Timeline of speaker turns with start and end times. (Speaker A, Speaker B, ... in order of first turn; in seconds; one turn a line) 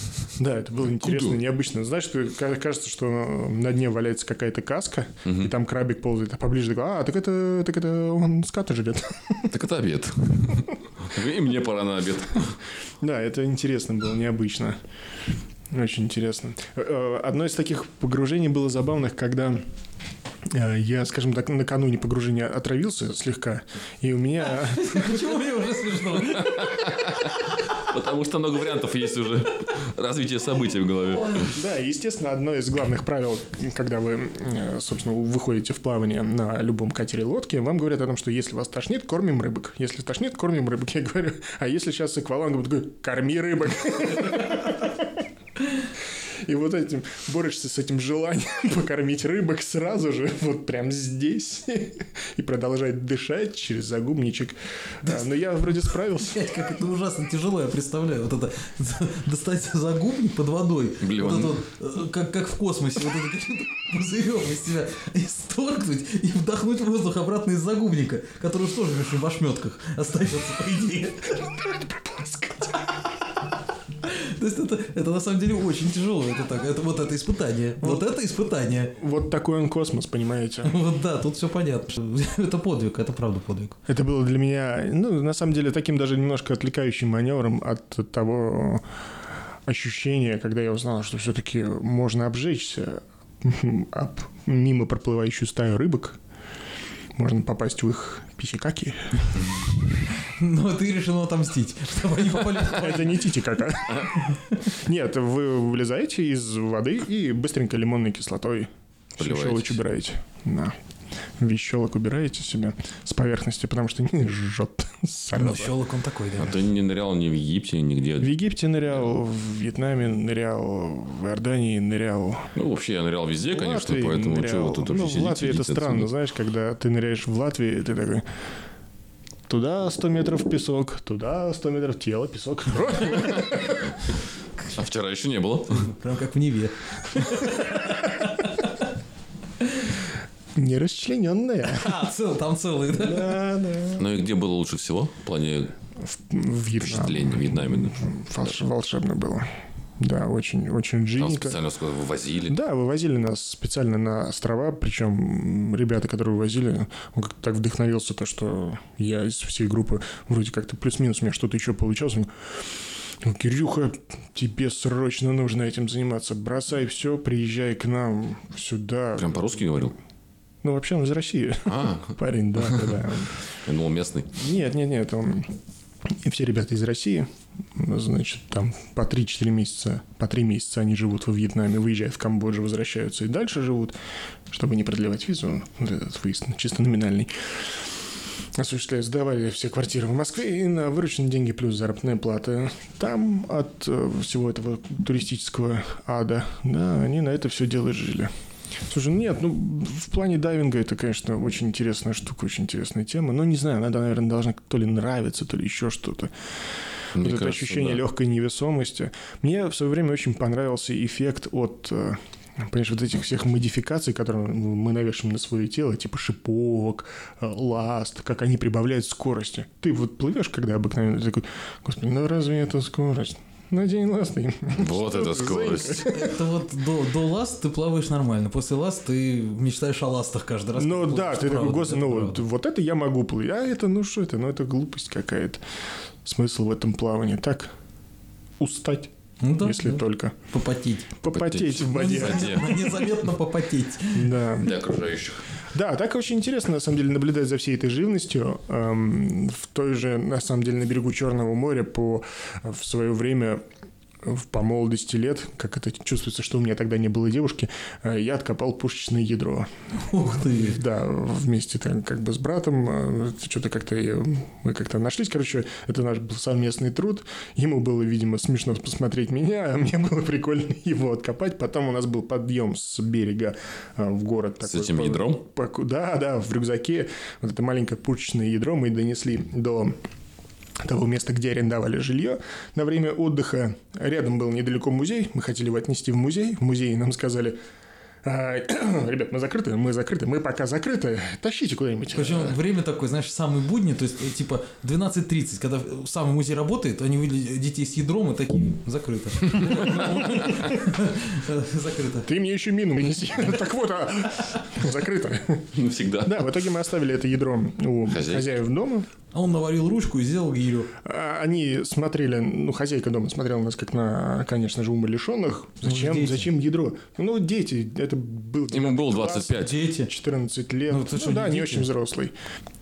Speaker A: 0.4-9.5
Speaker B: 1.0-1.4
Speaker B: 5.2-5.5
Speaker B: 9.5-12.6
Speaker A: 13.0-14.8
Speaker A: 15.7-19.6
Speaker A: 20.5-25.4
Speaker C: 24.5-26.8
Speaker B: 26.4-31.5
Speaker C: 31.2-31.5
Speaker A: 31.5-45.2
Speaker A: 46.4-56.5
Speaker C: 56.2-71.4
Speaker B: 61.0-61.6
Speaker A: 71.6-72.8
Speaker C: 74.0-79.0
Speaker A: 77.8-78.1
Speaker A: 78.9-80.8
Speaker C: 80.6-83.8
Speaker A: 83.9-88.9
Speaker A: 89.7-96.2
Speaker A: 97.2-99.4
Speaker C: 100.3-103.2
Speaker A: 102.6-104.1
Speaker C: 104.3-104.6
Speaker A: 104.7-110.8
Speaker B: 109.2-109.8
Speaker A: 111.4-115.8
Speaker C: 115.3-116.6
Speaker B: 116.4-118.4
Speaker A: 118.2-122.5
Speaker B: 122.5-126.1
Speaker A: 123.5-128.3
Speaker A: 129.5-133.9
Speaker B: 134.7-135.9
Speaker C: 135.8-138.8
Speaker C: 139.6-139.9
Speaker A: 140.6-142.0
Speaker C: 141.7-143.4
Speaker A: 142.9-144.1
Speaker B: 144.0-145.7
Speaker A: 146.0-151.6
Speaker B: 146.8-148.1
Speaker B: 151.2-152.6
Speaker A: 152.5-169.4
Speaker B: 169.2-169.9
Speaker A: 170.6-173.3
Speaker B: 171.7-172.8
Speaker B: 173.6-174.3
Speaker A: 174.4-175.5
Speaker A: 176.1-183.9
Speaker A: 184.5-187.3
Speaker A: 188.6-198.3
Speaker A: 198.9-206.3
Speaker B: 207.2-208.0
Speaker A: 207.2-226.4
Speaker B: 224.8-226.1
Speaker C: 226.0-232.4
Speaker A: 230.8-235.6
Speaker A: 236.2-237.7
Speaker A: 238.6-240.4
Speaker C: 239.4-241.1
Speaker A: 241.2-242.8
Speaker B: 241.3-243.1
Speaker C: 241.9-244.3
Speaker A: 244.1-244.8
Speaker B: 244.6-245.4
Speaker A: 245.7-253.7
Speaker A: 254.2-259.7
Speaker C: 260.0-260.8
Speaker A: 260.4-280.0
Speaker B: 274.6-275.4
Speaker A: 280.8-287.6
Speaker A: 288.2-292.6
Speaker C: 292.1-302.3
Speaker A: 302.2-305.7
Speaker B: 305.7-306.6
Speaker A: 306.2-309.1
Speaker B: 308.1-308.5
Speaker C: 309.3-310.9
Speaker A: 311.0-322.3
Speaker C: 315.8-316.5
Speaker B: 318.7-319.8
Speaker C: 319.6-320.1
Speaker C: 320.9-321.9